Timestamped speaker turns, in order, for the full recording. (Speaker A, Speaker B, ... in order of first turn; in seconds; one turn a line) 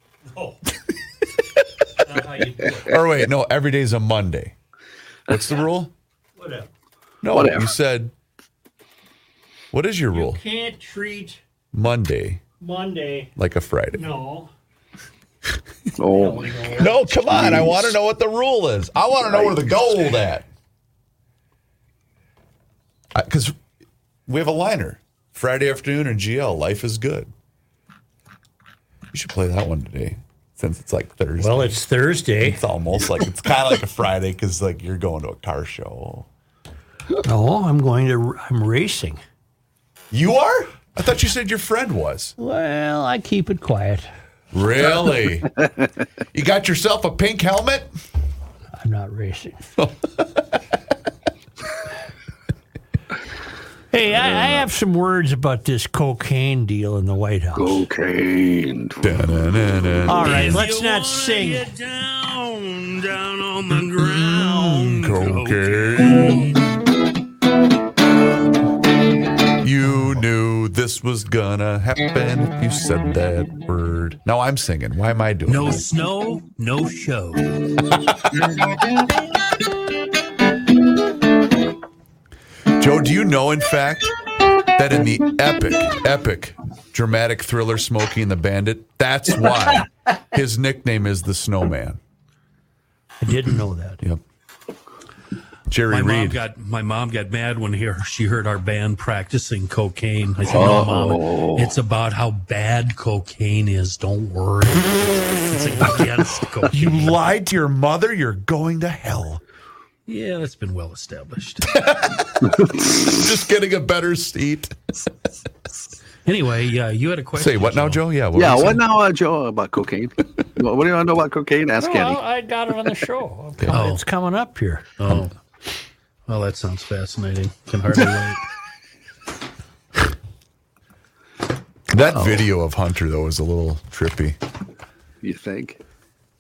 Speaker A: 2.0-3.0
Speaker B: 2.9-4.5
Speaker B: 5.3-5.9
Speaker A: 6.4-6.7
Speaker B: 7.2-8.1
Speaker C: 7.3-7.7
Speaker B: 9.7-10.4
Speaker A: 10.1-11.4
Speaker B: 11.7-12.4
Speaker A: 12.6-13.3
Speaker B: 13.4-14.0
Speaker A: 13.9-14.5
Speaker C: 16.0-16.7
Speaker A: 16.1-17.6
Speaker B: 16.8-20.5
Speaker C: 17.3-17.9
Speaker C: 19.2-19.7
Speaker B: 23.1-23.6
Speaker B: 24.3-27.3
Speaker B: 29.1-31.8
Speaker A: 31.4-32.6
Speaker B: 32.4-36.3
Speaker A: 37.2-39.2
Speaker B: 40.1-42.4
Speaker A: 42.4-44.1
Speaker B: 44.5-45.5
Speaker B: 46.3-47.9
Speaker A: 48.8-49.6
Speaker B: 49.8-50.2
Speaker A: 53.9-57.8
Speaker C: 57.5-59.4
Speaker B: 59.0-60.6
Speaker A: 60.1-61.7
Speaker D: 60.2-66.6
Speaker B: 64.2-66.5
Speaker B: 69.6-75.9
Speaker D: 75.5-77.5
Speaker B: 82.7-84.2
Speaker B: 84.7-92.0
Speaker A: 93.2-94.0
Speaker B: 95.7-96.4
Speaker D: 95.9-107.2
Speaker C: 100.5-101.7
Speaker B: 106.7-109.4
Speaker D: 110.1-111.8
Speaker B: 111.7-114.8
Speaker D: 116.3-118.0
Speaker B: 117.4-118.8
Speaker C: 118.3-122.2
Speaker A: 121.8-124.9
Speaker D: 123.7-124.0
Speaker D: 125.0-125.3
Speaker D: 126.3-128.4
Speaker B: 131.9-134.4
Speaker C: 132.2-132.5
Speaker C: 135.2-135.8